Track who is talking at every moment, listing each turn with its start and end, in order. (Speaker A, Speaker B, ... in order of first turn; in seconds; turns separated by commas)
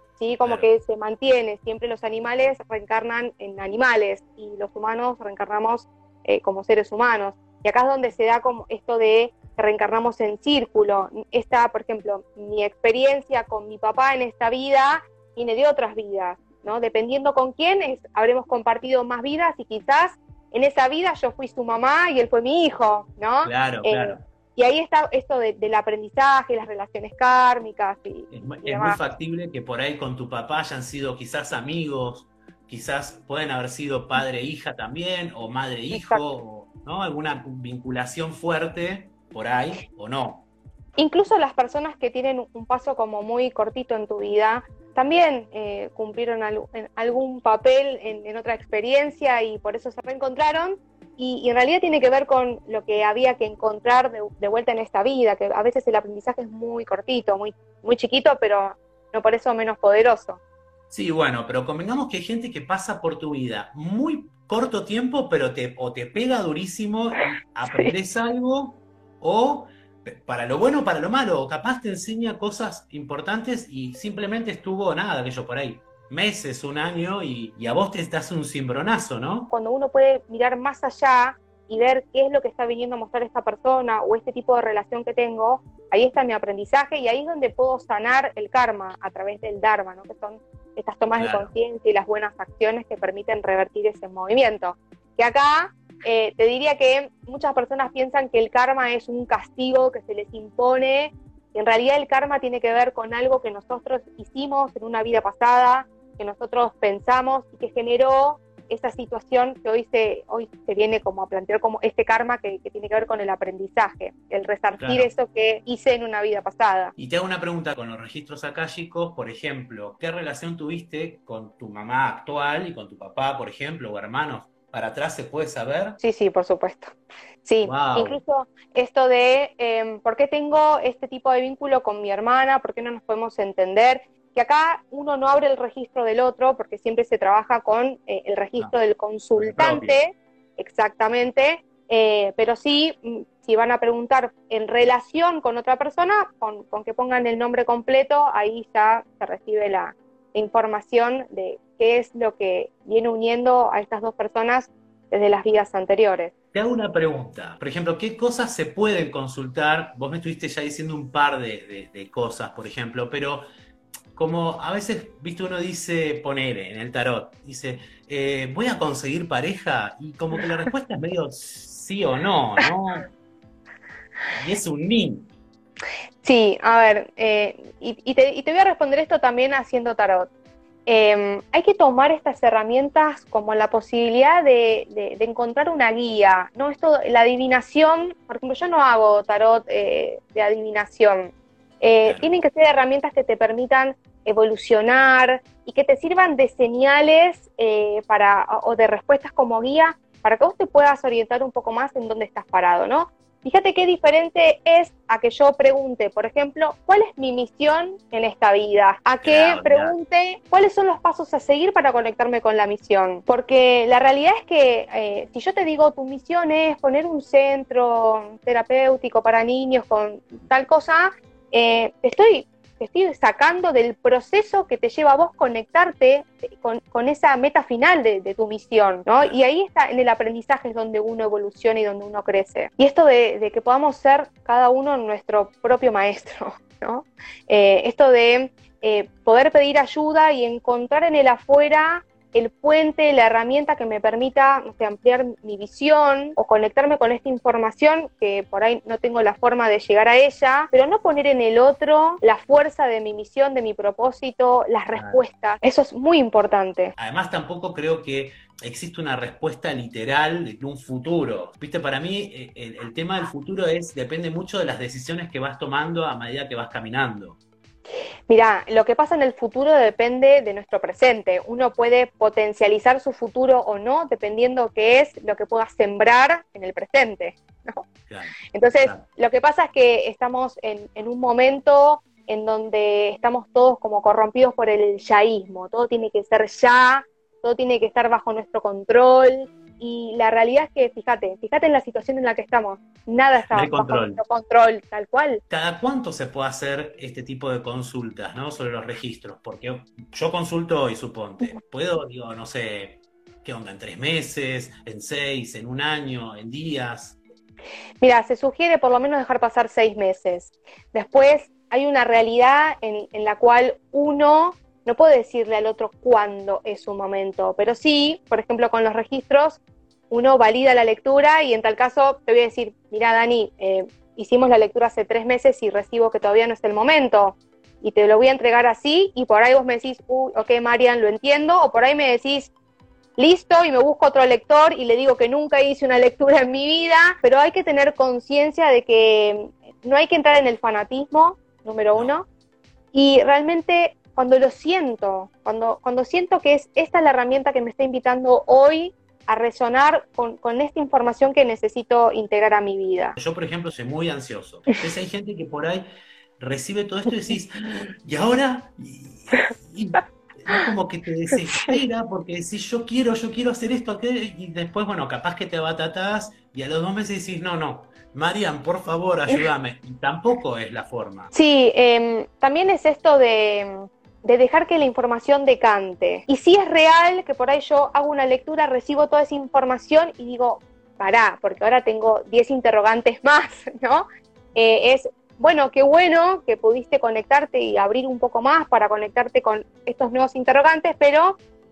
Speaker A: 0.2-29.0, Speaker B: 0.4-0.7, Speaker B: 23.4-24.2, Speaker B: 28.3-40.5, Speaker A: 35.9-36.2, Speaker A: 41.0-60.4, Speaker B: 60.9-79.5, Speaker A: 79.5-117.0, Speaker B: 91.2-91.5, Speaker B: 114.8-115.1, Speaker B: 117.0-126.0, Speaker A: 126.0-156.3, Speaker B: 127.6-128.2, Speaker B: 139.3-140.0, Speaker B: 156.5-163.4, Speaker B: 164.2-173.1, Speaker B: 174.3-175.3, Speaker A: 176.2-180.3, Speaker A: 180.9-256.9, Speaker B: 192.1-192.3, Speaker B: 209.2-210.0, Speaker B: 254.9-255.2, Speaker B: 257.0-267.4, Speaker A: 268.3-277.9, Speaker B: 278.1-279.1, Speaker A: 278.5-295.4, Speaker B: 293.5-294.2, Speaker B: 295.5-307.2, Speaker A: 308.0-332.5, Speaker A: 333.2-342.3, Speaker A: 342.9-353.1, Speaker B: 353.2-355.9, Speaker B: 356.4-371.3, Speaker A: 371.3-391.4